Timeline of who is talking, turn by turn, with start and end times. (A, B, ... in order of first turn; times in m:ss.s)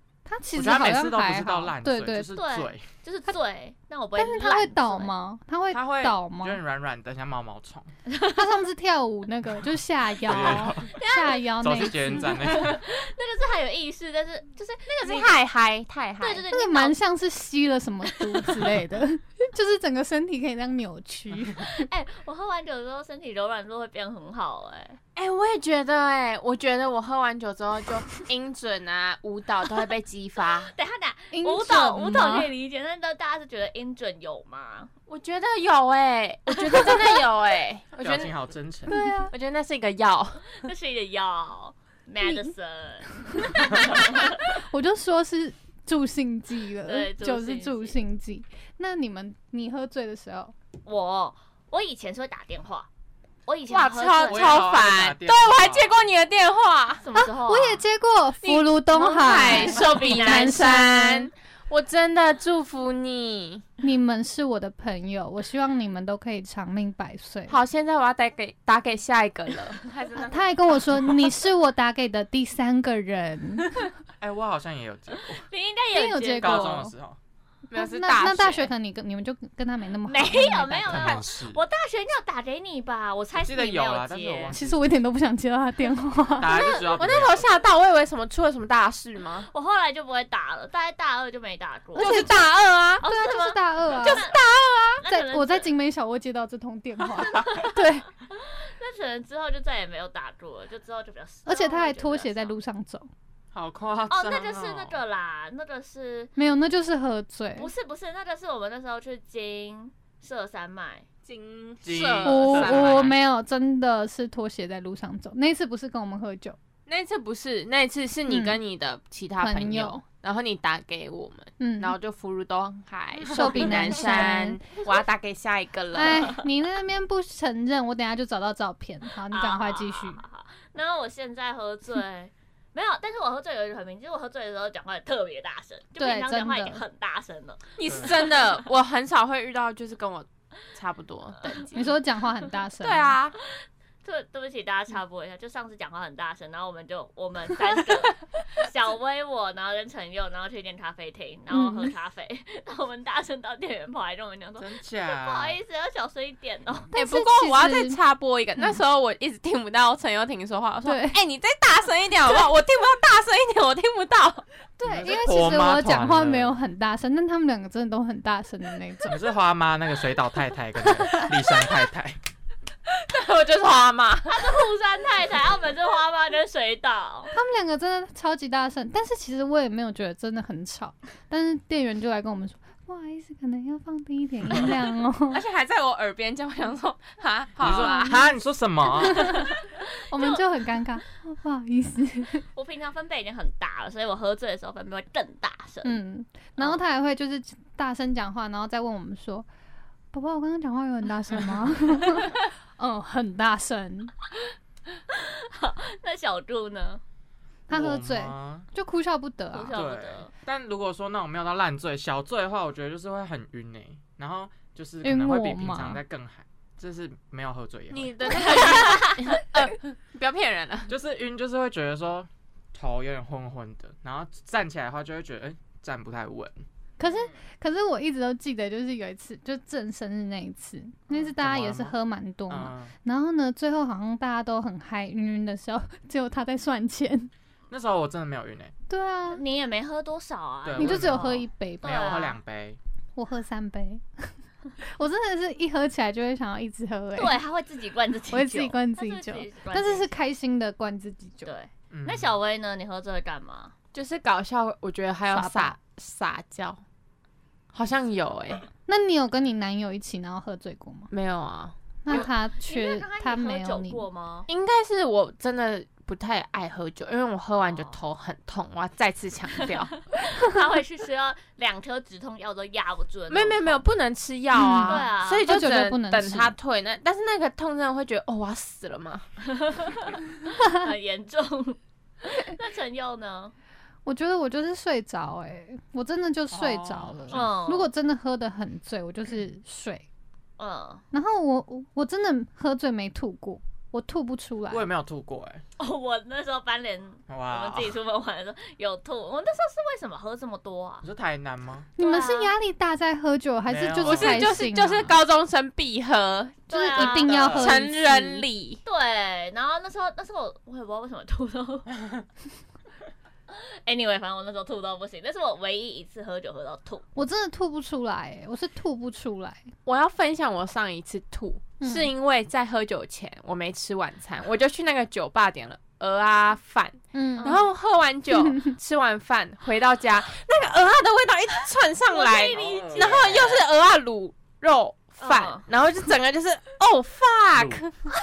0:00.2-0:02.4 A
0:00.5-0:02.9 B
0:02.3-0:05.1 C
0:04.2-0:06.6 A
0:05.7-0:07.9 B
0:08.1-0:08.4 C
0:08.4-0:12.6 A
0:10.2-0:10.9 B
0:10.5-0:15.3 C
0:11.6-0:12.8 B
0:14.9-0:16.4 D
0:16.2-0:17.0 C
0:16.5-0:21.9 A
0:21.6-0:25.0 C
0:25.2-0:30.7 D
0:30.7-0:34.9 C
0:31.3-0:32.5 A
0:35.1-0:38.4 D
0:36.7-0:37.0 C
0:38.0-0:39.0 B
0:38.9-0:39.3 A
0:38.9-0:40.6 D
0:40.6-0:44.5 C
0:42.2-0:42.5 A
0:43.3-0:50.5 A
0:46.9-0:48.0 C
0:50.8-0:52.9 C
0:53.4-0:54.7 C
0:53.7-0:57.0 D
0:54.3-0:56.0 B
0:57.0-0:57.8 C
0:57.1-1:01.3 A
0:58.4-1:03.6 D
0:59.4-1:00.8 C
1:03.8-1:07.6 A
1:07.5-1:11.3 D
1:10.2-1:13.9 A
1:14.2-1:15.5 B
1:15.4-1:16.8 C
1:15.9-1:16.9 A
1:16.4-1:17.2 B
1:17.7-1:18.7 D
1:17.7-1:21.2 A
1:20.0-1:24.6 C
1:20.9-1:21.6 B
1:23.4-1:24.9 B
1:24.5-1:26.8 A
1:26.4-1:27.5 B
1:26.6-1:29.5 D
1:29.5-1:32.3 C
1:32.0-1:32.4 A
1:32.0-1:33.0 D
1:33.0-1:34.3 A
1:33.0-1:34.4 C
1:34.0-1:35.0 D
1:35.0-1:35.7 C
1:35.0-1:38.0 A
1:37.1-1:42.5 C
1:41.4-1:43.1 A
1:43.5-1:45.0 B
1:44.1-1:46.3 C
1:46.4-1:47.7 A
1:47.6-1:51.0 C
1:51.2-1:53.1 D
1:51.8-1:53.1 B
1:52.2-1:56.6 A
1:56.9-2:06.3 D
1:58.3-1:58.6 A
1:59.4-2:00.0 A
2:01.6-2:02.0 A
2:03.3-2:04.6 A
2:05.9-2:10.2 A
2:09.3-2:18.5 C
2:16.0-2:16.8 A
2:17.8-2:21.9 D
2:21.7-2:23.2 A
2:22.8-2:23.4 D
2:24.0-2:36.9 C
2:31.5-2:31.9 A
2:34.6-2:35.6 B
2:36.9-2:38.0 A
2:36.9-2:44.4 D
2:40.8-2:41.2 A
2:44.8-2:49.2 A
2:44.8-2:46.6 B
2:49.1-2:52.2 B
2:51.0-2:51.3 A
2:52.9-2:54.5 D
2:54.3-2:57.3 C
2:57.3-3:05.4 A
3:05.3-3:08.2 D
3:07.6-3:09.4 B
3:07.7-3:08.3 A
3:08.9-3:09.5 A
3:09.3-3:09.6 C
3:10.1-3:12.4 A
3:10.1-3:10.4 C
3:12.5-3:16.0 C
3:15.8-3:19.5 A
3:16.6-3:16.8 C
3:20.1-3:24.1 A
3:25.1-3:27.0 C
3:27.7-3:29.8 A
3:27.7-3:28.7 B
3:29.5-3:30.3 C
3:29.7-3:38.2 B
3:35.0-3:36.0 A
3:37.9-3:40.9 D
3:38.6-3:39.2 C
3:40.9-3:46.6 B
3:47.0-3:57.3 A
3:47.0-3:47.4 C
3:51.4-3:51.9 B
3:52.5-3:52.9 B
3:57.7-3:58.7 B
3:58.9-3:59.4 A
3:59.3-4:02.4 C
4:00.6-4:02.8 B
4:00.8-4:02.1 A
4:03.2-4:07.4 A
4:07.2-4:10.2 C
4:08.3-4:11.5 A
4:11.4-4:13.7 C
4:11.9-4:12.4 B
4:13.9-4:16.8 D
4:15.3-4:15.8 A
4:17.7-4:18.7 D
4:18.9-4:21.1 A
4:21.1-4:22.3 D
4:22.0-4:24.0 A
4:22.1-4:24.5 C
4:24.5-4:29.9 D
4:27.6-4:28.0 C
4:30.2-4:33.9 C
4:33.3-4:39.3 D
4:34.5-4:36.5 A
4:34.8-4:35.6 C
4:39.4-4:43.5 C
4:44.0-4:50.1 A
4:46.5-4:47.5 B
4:47.3-4:47.9 C
4:50.6-4:51.0 C
4:51.1-4:54.9 A
4:54.7-4:55.6 B
4:55.8-5:01.0 C
4:57.3-4:58.0 B
5:01.0-5:01.9 B
5:02.0-5:05.2 A
5:02.0-5:02.5 C
5:03.7-5:04.6 B
5:04.0-5:08.8 D
5:06.7-5:07.7 C
5:06.7-5:08.5 A
5:07.3-5:07.7 B
5:08.8-5:11.9 C
5:13.5-5:17.1 C
5:17.1-5:19.7 A
5:19.8-5:37.9 D
5:21.8-5:22.1 A
5:27.1-5:27.6 A
5:27.4-5:27.7 C
5:28.3-5:28.7 A
5:32.1-5:33.6 C
5:32.5-5:33.4 B
5:35.2-5:35.6 C
5:37.5-5:37.8 B